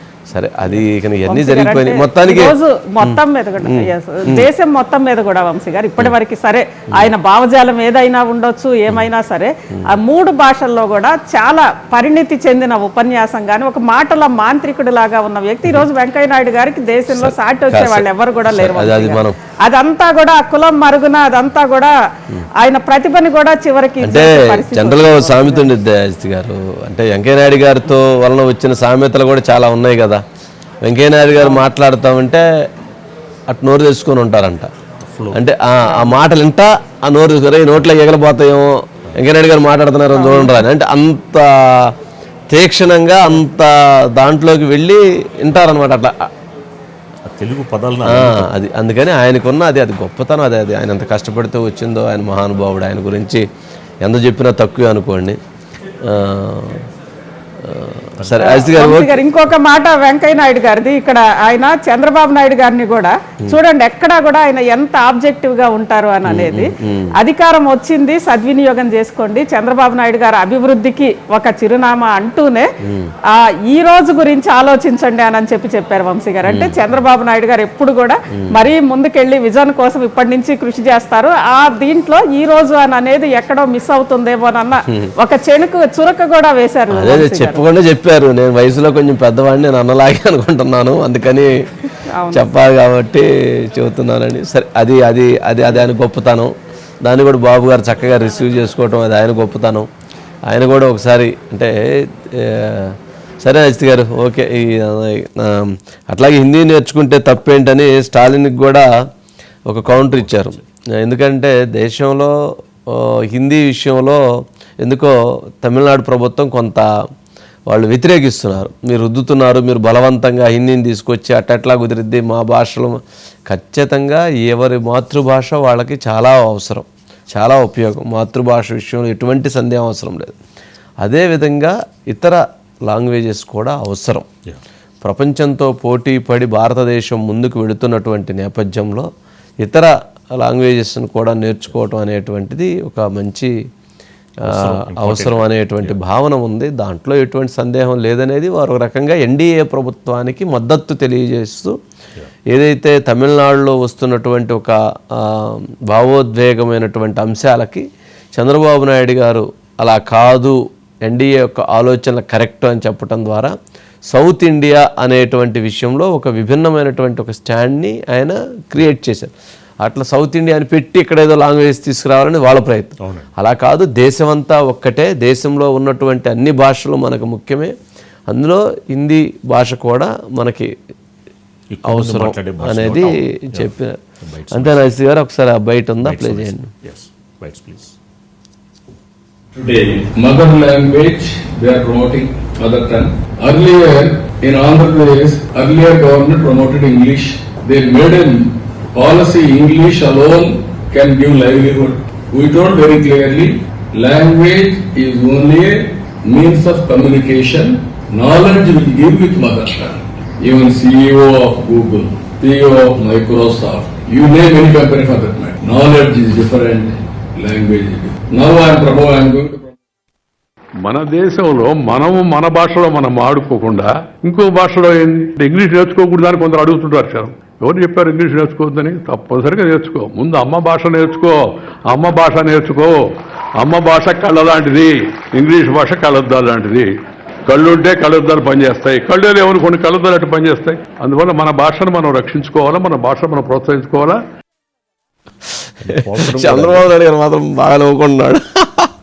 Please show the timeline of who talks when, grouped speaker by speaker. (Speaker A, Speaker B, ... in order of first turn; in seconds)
Speaker A: 0.3-4.5, 17.1-19.3, 24.0-30.2, 30.8-32.5, 33.5-34.7, 35.3-41.9, 42.5-46.3, 48.0-53.4, 54.0-55.4, 56.1-56.8, 57.6-59.2, 66.2-67.1, 72.8-73.1, 76.5-76.8, 86.9-91.5, 92.3-96.5, 97.0-99.9, 100.5-108.9, 109.7-112.3, 112.9-114.2, 114.8-116.8, 117.7-123.0, 123.5-130.3, 131.0-134.3, 135.0-139.1, 139.6-143.5, 144.5-151.7, 152.5-163.5, 164.1-169.3, 169.8-177.7, 178.3-180.7, 181.8-184.0, 184.5-186.7, 246.2-248.9
Speaker B: 0.7-21.9, 22.6-25.7, 31.4-31.6, 35.9-36.1, 40.1-40.6, 58.4-72.7, 73.3-87.6, 92.2-92.4
Speaker C: 35.0-35.4, 47.2-48.5, 109.9-110.6, 144.4-146.0, 173.0-173.3, 181.7-184.9, 186.0-187.9, 245.8-246.9
Speaker D: 189.5-219.7
Speaker E: 220.8-236.9, 237.5-244.2